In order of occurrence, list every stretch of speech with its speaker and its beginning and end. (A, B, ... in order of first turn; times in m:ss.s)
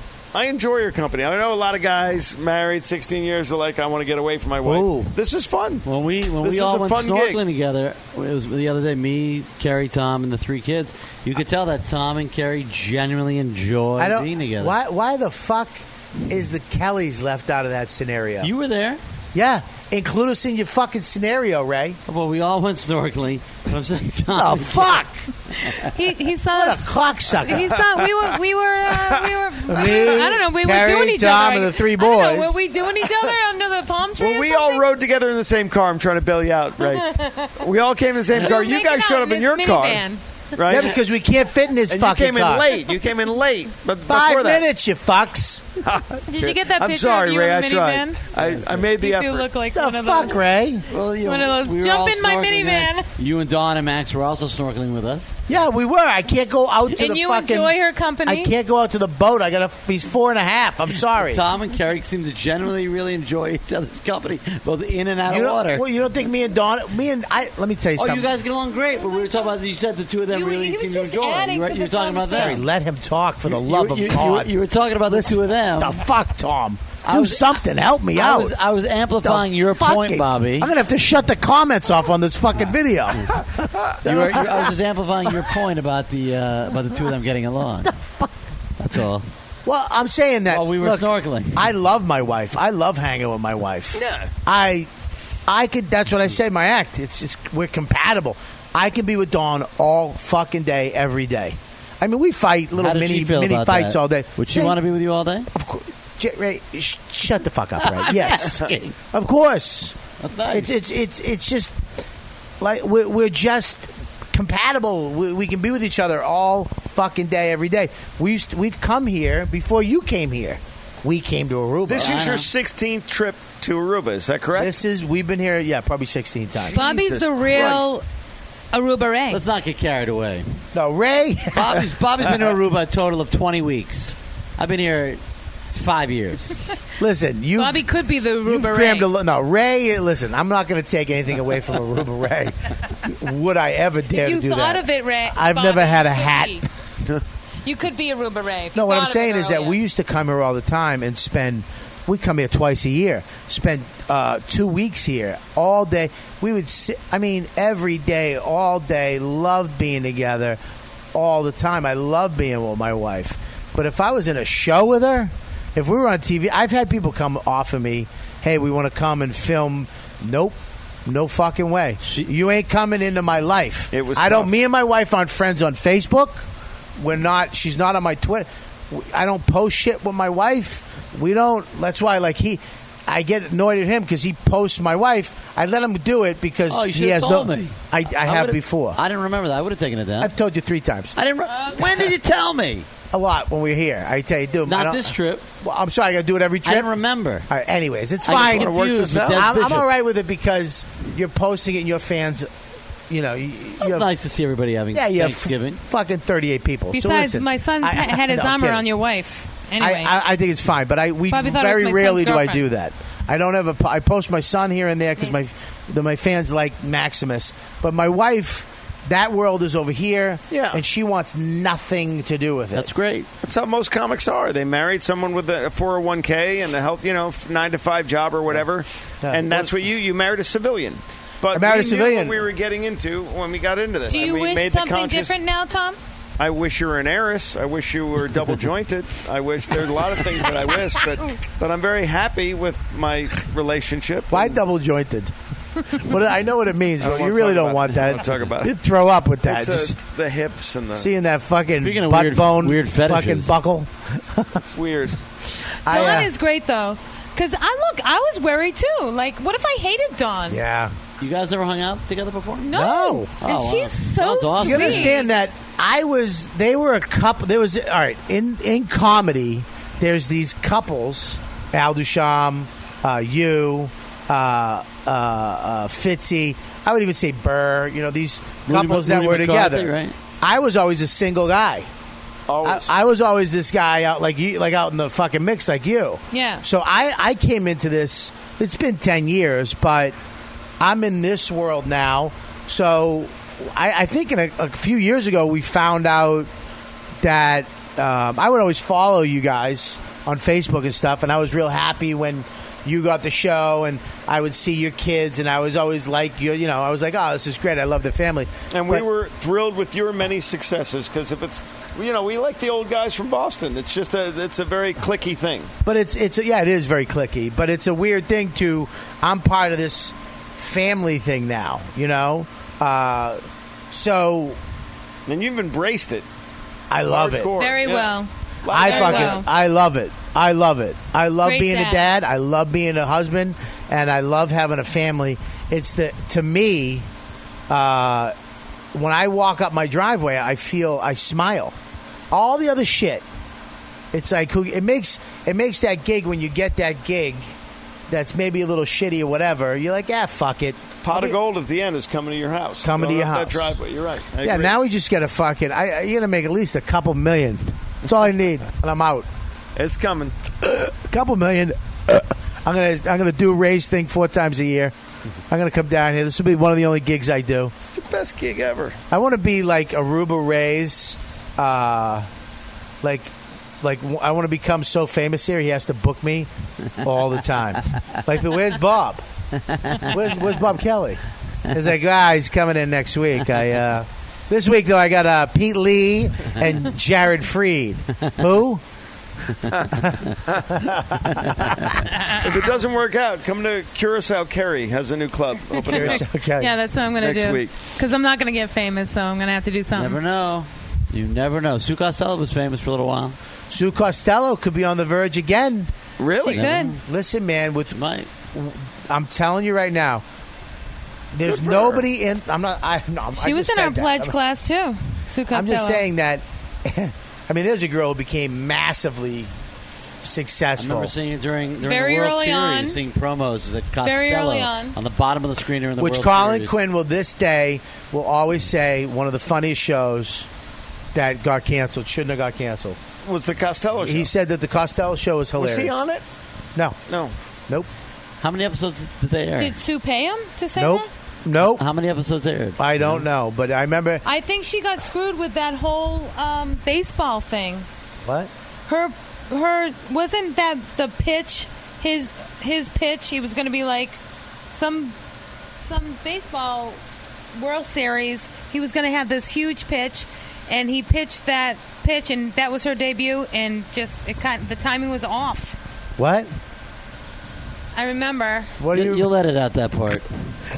0:00.3-0:05.8 A
0:04.6-0:05.1 B
0:05.8-0:14.7 C
0:06.4-0:07.4 A
0:14.0-0:18.5 B
0:18.4-0:19.0 C
0:19.3-0:22.0 B
0:22.1-0:25.0 C
0:24.3-0:25.2 B
0:25.6-0:34.8 D
0:26.5-0:27.8 B
0:29.7-0:32.6 B
0:34.2-0:41.0 A
0:36.8-0:37.6 D
0:38.3-0:40.2 D
0:40.6-0:42.7 B
0:41.9-0:44.6 A
0:44.1-0:45.8 B
0:45.8-0:49.5 A
0:46.3-0:48.3 D
0:48.4-0:48.9 C
0:48.9-0:50.4 D
0:49.7-0:50.9 B
0:50.9-0:55.3 C
0:51.2-0:53.0 D
0:55.5-1:01.4 B
0:56.9-0:58.5 D
1:01.2-1:05.8 C
1:05.2-1:08.3 B
1:08.0-1:12.6 C
1:10.3-1:12.6 D
1:12.3-1:14.5 B
1:13.5-1:16.0 C
1:15.0-1:18.5 B
1:17.0-1:17.6 C
1:18.1-1:20.7 C
1:19.2-1:24.7 B
1:24.0-1:28.0 C
1:27.8-1:28.3 B
1:28.8-1:29.3 C
1:29.6-1:34.9 B
1:30.5-1:31.7 C
1:33.9-1:34.3 A
1:35.5-1:44.8 B
1:42.8-1:45.5 C
1:45.5-1:50.0 B
1:47.8-1:48.9 C
1:50.2-1:50.7 C
1:50.5-1:51.7 B
1:52.6-2:02.2 B
2:01.9-2:04.7 A
2:01.9-2:02.5 C
2:04.5-2:06.8 B
2:06.6-2:07.8 A
2:06.7-2:08.0 D
2:08.7-2:09.4 D
2:09.3-2:10.4 C
2:10.7-2:11.8 B
2:11.5-2:15.2 C
2:15.7-2:16.6 C
2:17.0-2:17.9 B
2:17.6-2:19.1 D
2:18.4-2:26.7 B
2:24.2-2:26.6 D
2:27.6-2:29.8 D
2:28.7-2:40.6 B
2:41.1-2:56.4 B
2:53.9-2:54.5 A
2:57.0-3:09.0 B
3:06.7-3:10.3 C
3:10.2-3:11.2 B
3:11.2-3:12.9 C
3:11.5-3:11.8 D
3:13.1-3:17.0 B
3:14.6-3:15.4 C
3:16.6-3:17.4 C
3:17.5-3:18.7 B
3:18.2-3:19.9 C
3:18.2-3:19.5 A
3:19.3-3:22.5 B
3:23.1-3:24.1 B
3:23.8-3:25.8 C
3:24.9-3:28.8 B
3:26.9-3:30.1 D
3:29.8-3:42.9 B
3:31.3-3:32.6 D
3:40.5-3:40.8 A
3:42.7-3:43.3 C
3:43.4-3:55.4 A
3:49.2-3:49.7 B
3:51.5-3:52.4 B
3:54.1-3:56.0 D
3:56.4-4:04.6 A
4:04.3-4:05.3 B
4:05.9-4:10.0 B
4:07.0-4:08.8 A
4:09.4-4:11.1 A
4:10.9-4:14.6 B
4:11.8-4:13.5 C
4:14.6-4:15.2 A
4:15.8-4:16.3 B
4:15.8-4:20.6 D
4:20.5-4:20.9 B
4:21.2-4:22.7 C
4:22.6-4:25.3 D
4:22.7-4:23.3 B
4:23.4-4:25.2 C
4:24.6-4:41.9 B
4:38.7-4:40.1 C
4:42.5-4:42.9 A
4:42.6-4:50.1 B
4:46.3-4:46.6 D
4:50.8-4:56.5 B
4:57.2-5:09.0 B
5:08.7-5:15.7 A
5:15.8-5:23.4 B
5:23.9-5:24.6 B
5:25.3-5:26.2 A
5:26.9-5:27.5 B
5:27.0-5:29.4 A
5:27.6-5:29.5 D
5:28.7-5:37.0 B
5:31.4-5:32.1 D
5:37.7-5:38.3 B
5:38.9-5:41.7 B
5:42.3-5:43.2 B
5:44.1-5:47.4 B
5:48.1-5:51.4 B
5:51.0-5:54.7 A
5:52.8-5:53.8 B
5:54.4-5:59.3 B
5:59.8-6:00.3 A
6:00.6-6:04.9 B
6:05.5-6:07.7 B
6:07.8-6:09.0 A
6:09.1-6:12.3 B
6:13.0-6:16.5 B
6:17.0-6:19.2 B
6:19.7-6:20.2 C
6:20.0-6:28.8 B
6:29.7-6:31.0 A
6:29.9-6:31.5 B
6:32.3-6:36.2 A
6:35.8-6:40.2 D
6:35.9-6:36.7 B
6:37.2-6:37.7 A
6:39.9-6:43.4 C
6:43.7-6:45.9 B
6:46.2-6:46.7 A
6:46.4-6:46.9 D
6:46.5-6:47.0 C
6:47.0-6:48.0 B
6:47.9-6:48.3 C
6:48.5-6:50.2 B
6:51.3-6:54.4 B
6:51.4-6:52.0 A
6:53.4-6:56.0 D
6:55.5-6:59.5 B
7:00.2-7:01.1 B
7:00.8-7:06.7 C
7:01.8-7:03.0 D
7:04.0-7:05.0 D
7:06.0-7:10.5 B
7:11.1-7:13.0 B
7:13.2-7:14.3 A
7:14.0-7:16.0 B
7:15.6-7:16.2 A
7:17.1-7:17.3 A
7:18.4-7:19.8 C
7:19.6-7:21.1 D
7:20.8-7:21.8 B
7:21.6-7:23.2 C
7:22.8-7:24.2 B
7:24.2-7:27.8 D
7:28.2-7:28.5 B
7:28.9-7:34.2 D
7:34.7-7:35.1 D
7:35.8-7:37.0 D
7:37.5-7:45.8 D
7:46.2-7:46.5 B
7:47.9-7:48.7 D
7:48.8-7:49.3 B
7:48.9-7:50.2 C